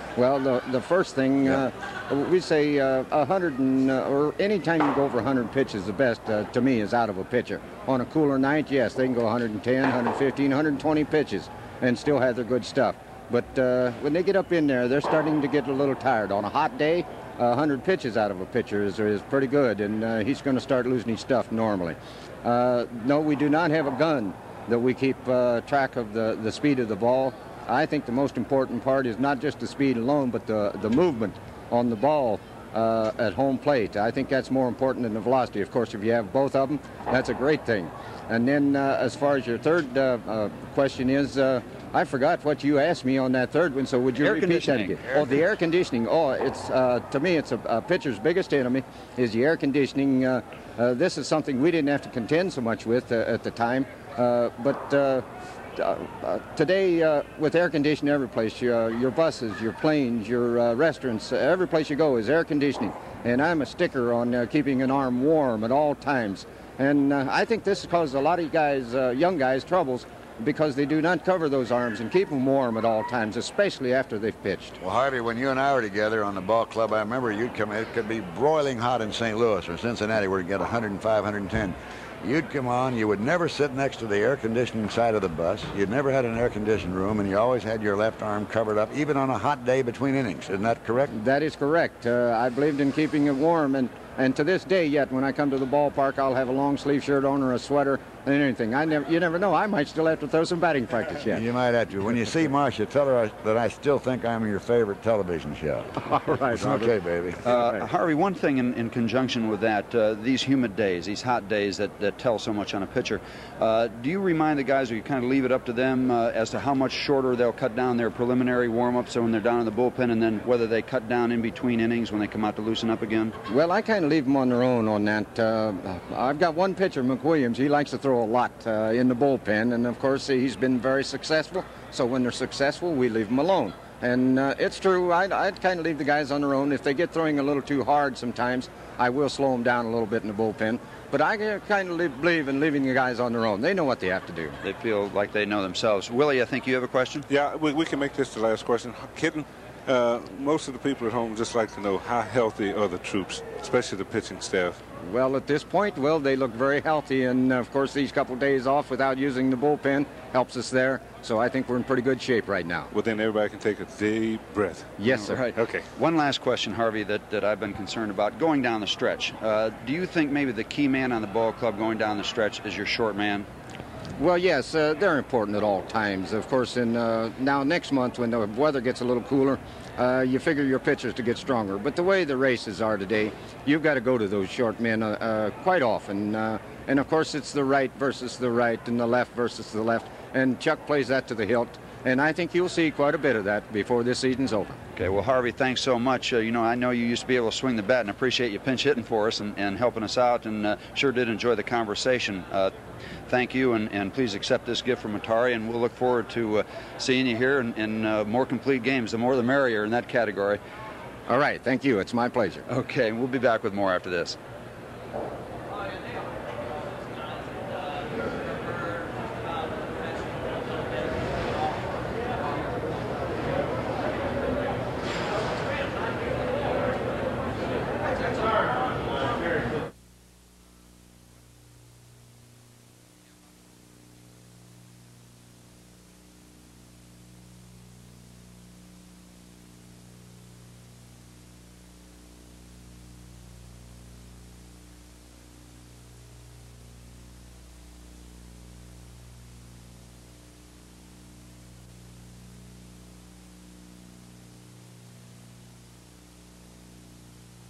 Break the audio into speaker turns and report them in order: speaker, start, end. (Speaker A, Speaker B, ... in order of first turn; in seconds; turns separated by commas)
Speaker A: 0.2-74.8, Speaker B: 44.2-45.3, Speaker C: 74.8-91.1, Speaker A: 91.1-101.4, Speaker C: 101.3-107.4, Speaker A: 106.0-106.9, Speaker A: 107.5-107.9, Speaker B: 107.5-123.4, Speaker A: 123.5-144.6, Speaker B: 144.6-147.3, Speaker D: 147.3-154.8, Speaker A: 155.1-162.9, Speaker D: 162.9-165.0, Speaker A: 165.0-165.4, Speaker B: 165.1-173.5, Speaker D: 165.6-165.9, Speaker A: 174.2-194.8, Speaker B: 195.0-202.7, Speaker B: 203.3-210.6, Speaker A: 211.3-212.6, Speaker B: 212.7-214.4